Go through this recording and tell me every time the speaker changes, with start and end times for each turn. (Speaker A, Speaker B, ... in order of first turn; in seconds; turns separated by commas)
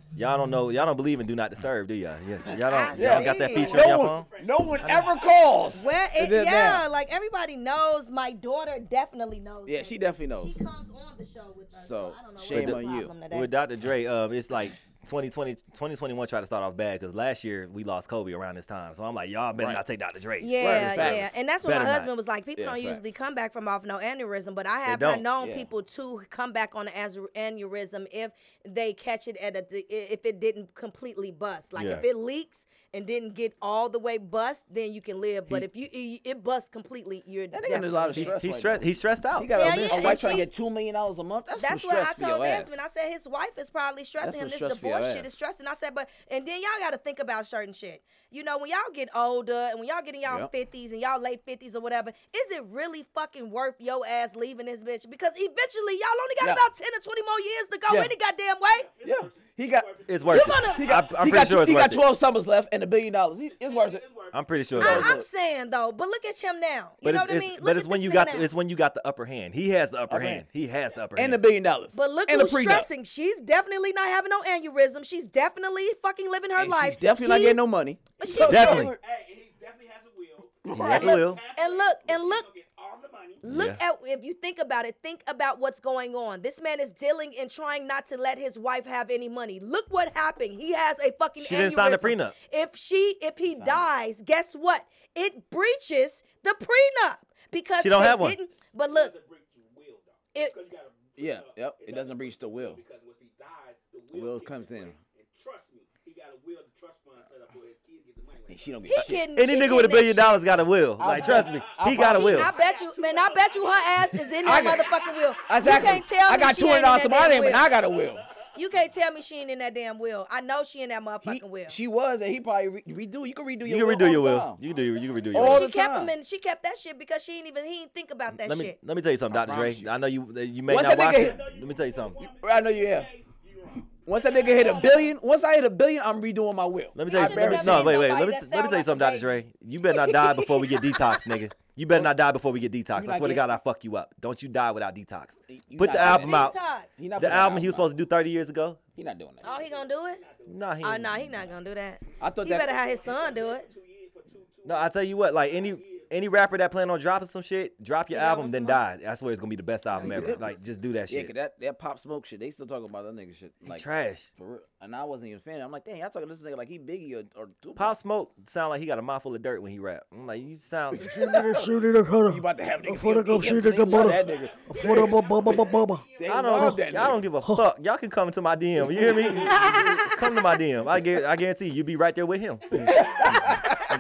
Speaker A: 0.1-4.3, Speaker B: 2.7-3.9, Speaker C: 2.9-6.9, Speaker D: 3.3-6.0, Speaker B: 5.7-13.5, Speaker C: 9.7-10.6, Speaker C: 11.8-13.1, Speaker A: 12.5-22.1, Speaker C: 19.6-19.8, Speaker B: 20.4-38.4, Speaker C: 20.6-21.4, Speaker C: 22.6-23.2, Speaker A: 24.8-25.3, Speaker C: 25.4-25.7, Speaker A: 31.8-32.0, Speaker C: 37.5-42.8, Speaker A: 38.1-40.4, Speaker B: 39.5-40.5, Speaker B: 41.5-58.9, Speaker C: 44.2-45.3, Speaker C: 56.4-56.6, Speaker C: 57.9-58.1, Speaker D: 58.7-61.0, Speaker C: 59.0-59.9, Speaker A: 60.1-62.0, Speaker B: 60.3-60.9, Speaker C: 60.5-64.0, Speaker D: 63.6-64.6, Speaker A: 64.3-65.1, Speaker C: 64.8-65.3, Speaker B: 64.8-68.5, Speaker A: 67.0-71.4, Speaker C: 70.1-70.5, Speaker C: 71.2-72.9, Speaker B: 71.9-77.6, Speaker C: 76.6-79.0, Speaker B: 78.2-78.9, Speaker D: 78.2-83.5, Speaker A: 78.4-79.0, Speaker C: 80.7-81.2, Speaker A: 80.7-81.4, Speaker B: 80.8-82.5, Speaker B: 83.4-99.1, Speaker A: 83.4-83.8, Speaker A: 91.4-92.4, Speaker C: 93.5-93.9, Speaker A: 97.8-98.4, Speaker D: 98.8-109.0, Speaker C: 101.2-102.8, Speaker C: 104.1-105.0, Speaker C: 108.5-109.3, Speaker B: 108.9-110.5, Speaker A: 109.2-112.5, Speaker C: 111.0-112.5, Speaker D: 111.0-116.1, Speaker B: 111.9-117.7, Speaker C: 114.4-114.9, Speaker C: 115.5-118.2, Speaker D: 117.2-118.8, Speaker B: 118.5-121.8, Speaker C: 121.2-124.6, Speaker A: 123.6-125.6, Speaker D: 124.6-125.6, Speaker C: 125.3-126.1, Speaker B: 125.4-128.8, Speaker A: 128.3-132.2, Speaker C: 129.3-129.9, Speaker C: 130.7-131.4, Speaker D: 130.8-135.2, Speaker C: 132.4-133.1, Speaker C: 134.1-138.0, Speaker B: 134.6-135.1, Speaker A: 136.9-146.6, Speaker B: 137.1-139.3, Speaker C: 142.9-143.4, Speaker C: 145.5-147.9, Speaker B: 146.0-146.9, Speaker A: 147.2-148.8, Speaker C: 148.9-149.6, Speaker D: 149.4-150.7, Speaker B: 149.4-150.2, Speaker A: 150.4-151.3, Speaker B: 150.8-153.7, Speaker D: 151.3-156.3, Speaker C: 152.2-152.7, Speaker A: 154.6-161.3, Speaker B: 158.1-158.8, Speaker C: 160.0-160.5, Speaker C: 161.1-167.9, Speaker A: 163.7-164.3, Speaker A: 167.8-171.4, Speaker E: 170.9-176.8, Speaker C: 172.3-175.1, Speaker D: 174.1-177.2, Speaker C: 176.2-177.2, Speaker A: 176.3-183.6, Speaker D: 179.2-180.1, Speaker D: 182.7-183.5, Speaker C: 182.9-183.8